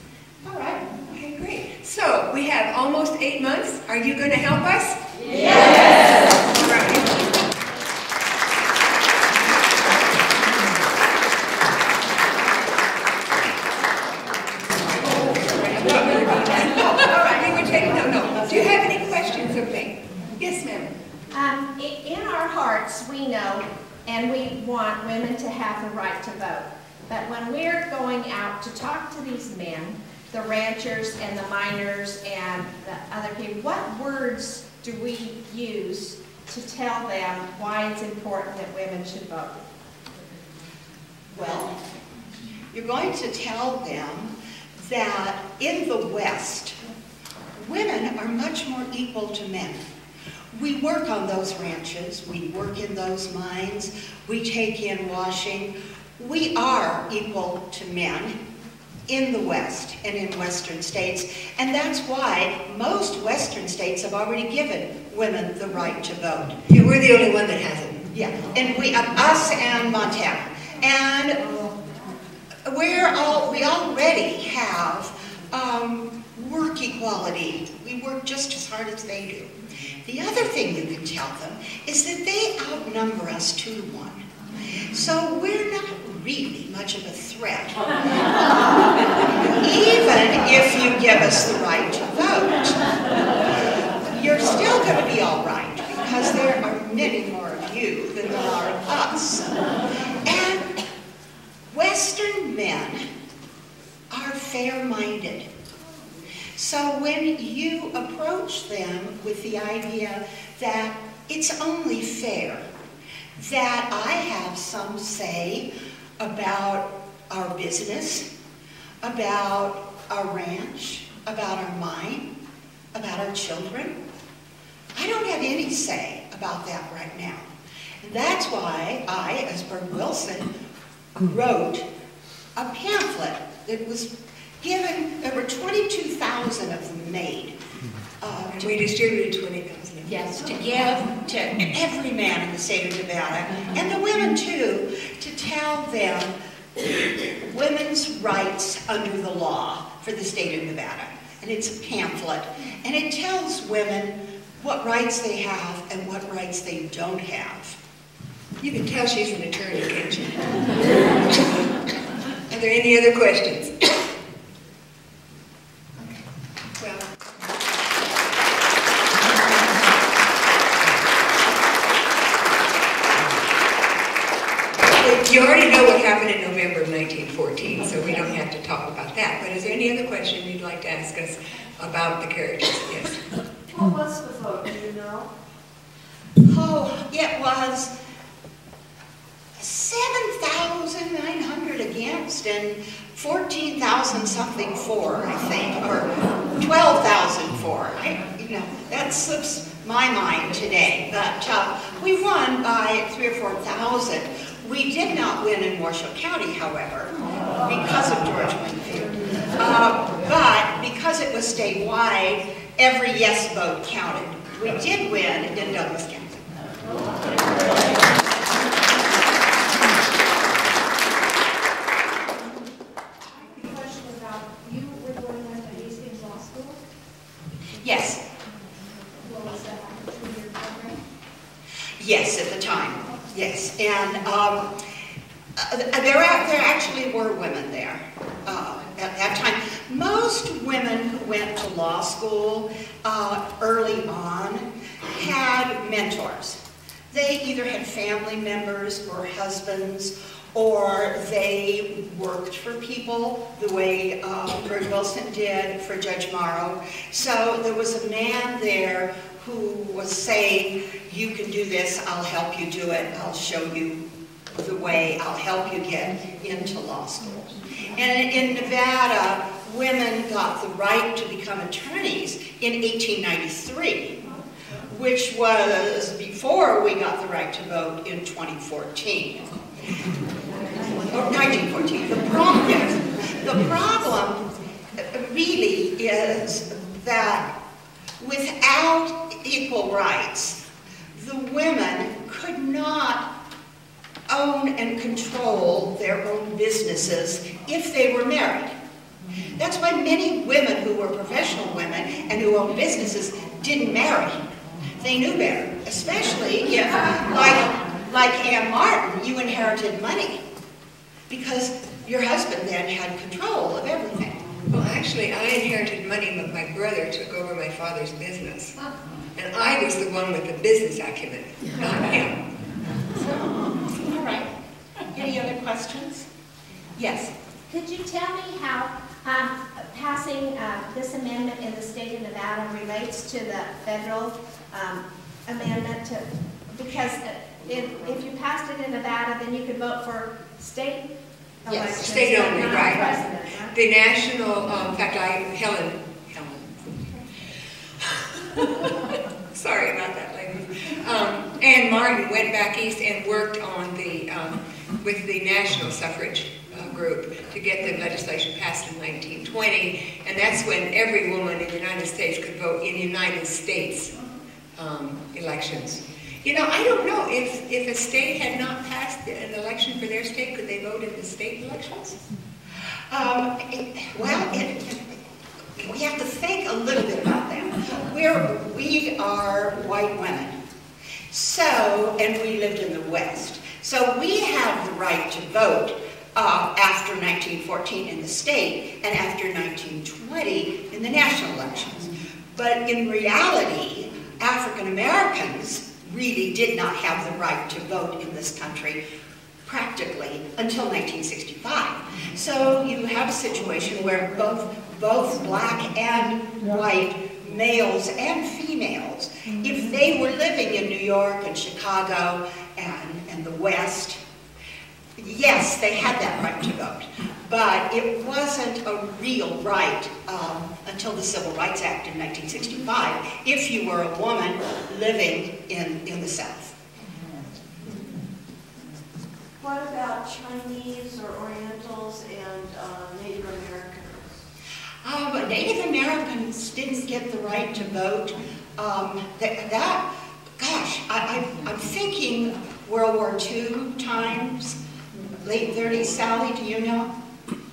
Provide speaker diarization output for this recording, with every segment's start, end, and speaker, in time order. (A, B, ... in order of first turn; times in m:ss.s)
0:00.4-0:00.8 A
0:01.0-0:07.2 B
0:15.0-0:20.9 B
0:21.3-0:39.6 C
0:41.3-0:41.8 A
0:42.7-0:46.8 A
0:47.5-0:49.9 A
0:50.5-0:58.4 A
0:59.1-1:06.6 A
1:06.7-1:08.0 B
1:08.1-1:11.5 A
1:12.6-1:24.3 A
1:24.9-1:32.8 A
1:33.4-1:39.5 A
1:40.2-1:40.8 A
1:41.7-1:43.0 A
1:44.1-1:45.5 A
1:46.6-1:52.7 A
1:53.4-1:55.7 A
1:56.2-1:58.3 A
1:59.0-2:02.2 A
2:02.9-2:03.9 A
2:04.9-2:07.5 A
2:08.0-2:10.5 A
2:11.2-2:11.8 A
2:12.6-2:17.5 A
2:18.2-2:18.8 A
2:18.5-2:20.3 B
2:20.0-2:26.3 A
2:27.4-2:37.8 A
2:38.6-2:40.5 B
2:42.5-2:43.8 B
2:46.8-2:47.0 B
2:54.8-3:03.2 B
3:03.7-3:05.3 D
3:06.4-3:07.9 A
3:09.6-3:36.5 A
3:43.3-3:46.8 C
3:47.8-3:48.2 A
3:49.2-3:51.0 C
3:52.0-3:54.7 A
3:55.6-4:06.6 A
4:07.1-4:24.0 A
4:24.6-4:34.2 A
4:34.9-4:39.6 A
4:41.0-4:47.5 A
4:48.2-4:50.6 A
4:51.1-4:53.3 A
4:54.3-4:58.7 A
4:59.6-5:04.4 A
5:05.0-5:10.4 A
5:11.3-5:14.4 A
5:14.7-5:18.7 B
5:19.3-5:22.4 B
5:23.2-5:26.3 A
5:27.0-5:27.3 A
5:27.7-5:41.0 C
5:41.6-5:43.7 C
5:41.9-5:43.1 B
5:43.7-5:46.7 B
5:48.5-6:04.2 B
6:04.8-6:12.2 B
6:13.1-6:15.0 A
6:15.8-6:20.6 A
6:21.3-6:39.0 A
6:39.6-6:54.2 A
6:55.2-7:06.7 A
7:09.6-7:14.4 D
7:15.0-7:20.0 A
7:20.6-7:24.8 A
7:25.4-7:27.1 A